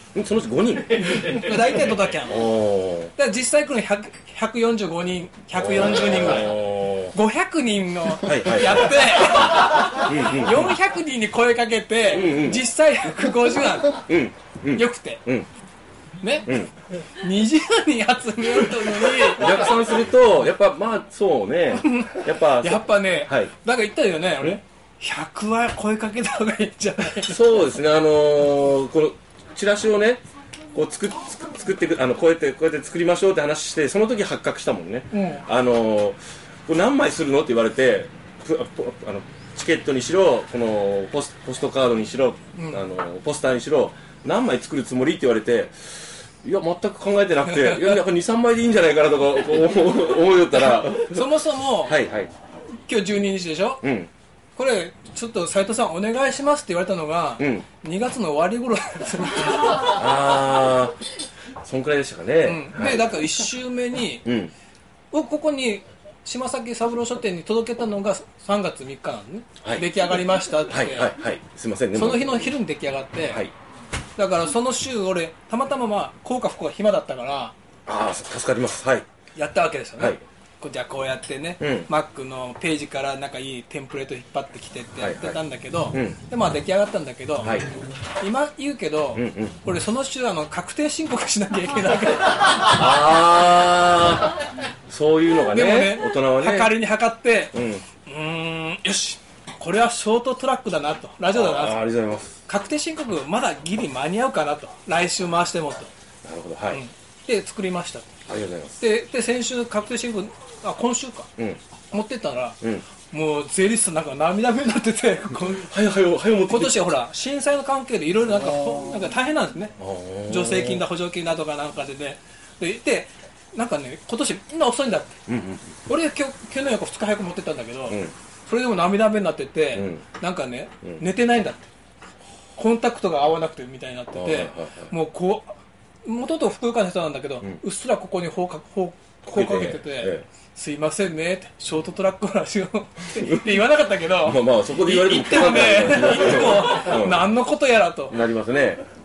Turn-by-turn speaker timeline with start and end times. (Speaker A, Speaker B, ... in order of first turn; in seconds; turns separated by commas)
Speaker A: 0.1-1.5, Speaker B: 1.0-2.5, Speaker A: 2.2-3.1, Speaker B: 3.1-14.1, Speaker A: 5.6-7.1, Speaker A: 8.2-9.3, Speaker A: 9.9-10.7, Speaker A: 12.1-12.6, Speaker A: 14.0-15.5, Speaker B: 14.7-15.2, Speaker B: 16.2-16.6, Speaker A: 16.5-16.7, Speaker B: 17.2-19.6, Speaker A: 19.3-23.5, Speaker B: 21.8-27.6, Speaker A: 27.2-30.2, Speaker A: 30.7-51.3, Speaker B: 35.1-35.5, Speaker B: 42.6-42.8, Speaker B: 47.5-48.0, Speaker B: 50.6-52.0, Speaker A: 51.8-52.3, Speaker B: 52.9-53.8, Speaker A: 53.8-54.1, Speaker B: 54.5-60.0, Speaker A: 57.4-57.6, Speaker A: 59.8-61.0, Speaker A: 61.6-63.3, Speaker B: 62.4-64.2, Speaker A: 64.2-64.5, Speaker B: 65.1-71.1, Speaker A: 70.7-72.5, Speaker B: 71.9-73.5, Speaker A: 73.3-73.5, Speaker B: 74.2-77.5, Speaker A: 77.9-79.1, Speaker B: 79.3-87.6, Speaker A: 81.6-81.9, Speaker A: 85.0-85.4, Speaker A: 85.9-86.2, Speaker A: 87.4-87.7, Speaker B: 88.2-92.9, Speaker A: 89.2-89.5, Speaker A: 92.7-96.8, Speaker B: 95.5-97.5, Speaker A: 97.5-97.9, Speaker B: 98.0-101.8, Speaker A: 101.3-102.3, Speaker B: 102.5-105.9, Speaker A: 106.2-106.8, Speaker B: 106.7-108.1, Speaker A: 108.3-108.8, Speaker B: 108.8-111.3, Speaker B: 111.9-115.7, Speaker A: 112.6-112.9, Speaker A: 115.5-116.8, Speaker B: 116.5-119.7, Speaker A: 119.8-120.8, Speaker B: 120.3-125.2, Speaker A: 125.3-125.7, Speaker B: 125.9-131.7, Speaker A: 129.7-130.0, Speaker B: 132.6-148.2, Speaker A: 134.1-134.9, Speaker A: 139.3-140.2, Speaker A: 144.2-147.2, Speaker A: 148.1-148.8